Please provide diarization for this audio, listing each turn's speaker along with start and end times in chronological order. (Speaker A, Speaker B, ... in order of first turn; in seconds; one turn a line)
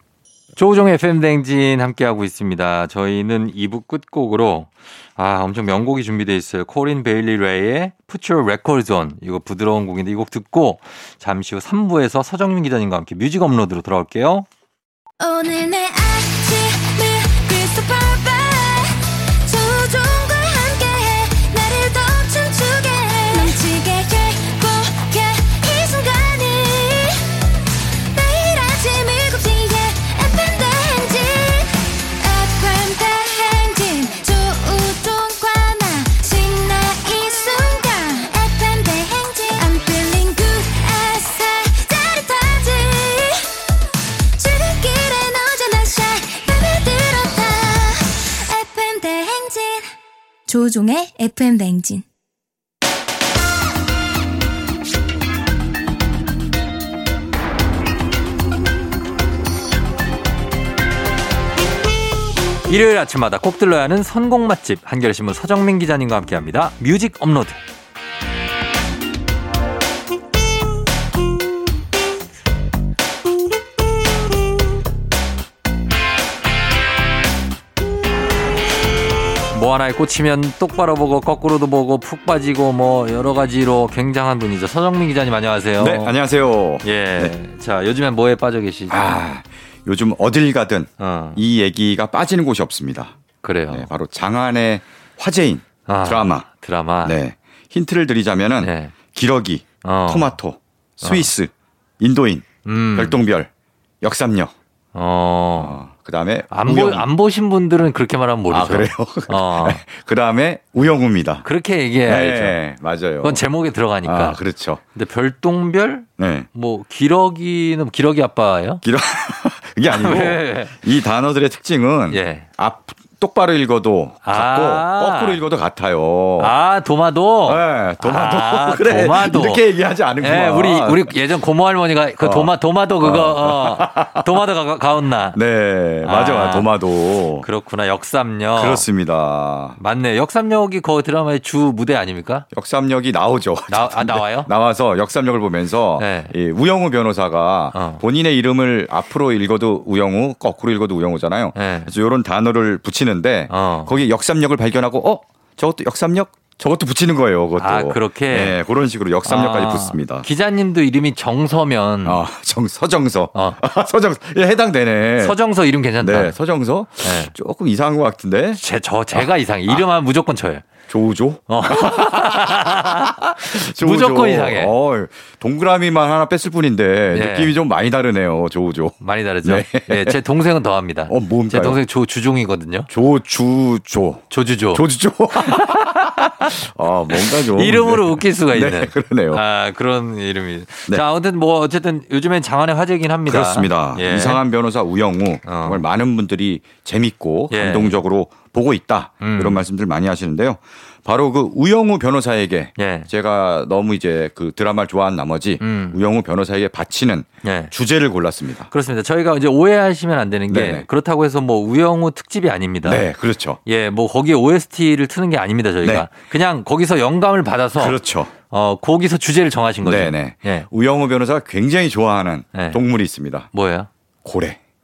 Speaker A: 0.6-14.4
Speaker B: 15.2-27.4
Speaker B: 28.1-43.5
Speaker B: 44.4-49.9
Speaker B: 50.5-52.0
Speaker A: 62.7-67.6
Speaker A: 79.5-86.2
Speaker C: 85.8-87.3
Speaker A: 86.8-89.1
Speaker C: 88.9-93.2
Speaker A: 91.0-91.4
Speaker A: 93.4-93.9
Speaker C: 93.7-96.5
Speaker A: 95.8-97.2
Speaker C: 97.0-103.5
Speaker A: 98.6-99.0
Speaker A: 99.8-100.3
Speaker A: 101.0-101.3
Speaker A: 102.6-103.2
Speaker C: 104.0-104.5
Speaker A: 104.9-105.8
Speaker C: 105.6-107.1
Speaker A: 106.5-109.8
Speaker C: 108.5-111.5
Speaker A: 111.4-112.6
Speaker C: 112.0-113.4
Speaker A: 113.2-114.4
Speaker C: 114.0-114.8
Speaker A: 114.9-118.8
Speaker C: 116.2-116.5
Speaker C: 118.8-126.5
Speaker A: 119.9-120.8
Speaker A: 122.1-122.5
Speaker A: 124.2-125.4
Speaker A: 126.4-129.6
Speaker C: 127.4-131.1
Speaker A: 130.2-135.4
Speaker C: 132.2-134.3
Speaker C: 135.3-137.4
Speaker A: 136.0-136.7
Speaker A: 137.4-138.9
Speaker C: 138.5-139.8
Speaker A: 139.8-142.4
Speaker C: 142.5-160.3
Speaker A: 143.7-144.5
Speaker A: 146.0-146.3
Speaker A: 147.7-148.0
Speaker A: 151.5-151.9
Speaker A: 153.5-153.9
Speaker A: 157.6-158.6
Speaker A: 159.2-162.2
Speaker C: 162.0-165.4
Speaker A: 165.2-166.3
Speaker C: 166.0-168.6
Speaker A: 167.0-167.3
Speaker A: 168.6-170.7
Speaker C: 169.1-169.8
Speaker C: 170.9-180.2
Speaker A: 171.5-174.7
Speaker A: 177.1-177.6
Speaker A: 179.0-182.9
Speaker C: 181.1-181.8
Speaker C: 182.9-189.4
Speaker A: 184.3-184.8
Speaker A: 185.4-186.1
Speaker A: 187.1-194.4
Speaker C: 193.3-208.7
Speaker A: 195.4-195.8
Speaker A: 197.5-198.0
Speaker A: 199.2-199.6
Speaker A: 202.8-203.1
Speaker A: 205.6-206.0
Speaker A: 207.4-207.7
Speaker A: 208.7-213.1
Speaker C: 210.5-210.8
Speaker C: 212.8-213.6
Speaker A: 213.7-220.7
Speaker C: 215.8-216.1
Speaker C: 217.8-218.3
Speaker C: 219.8-223.5
Speaker A: 222.5-222.8
Speaker A: 223.5-223.9
Speaker C: 224.2-224.6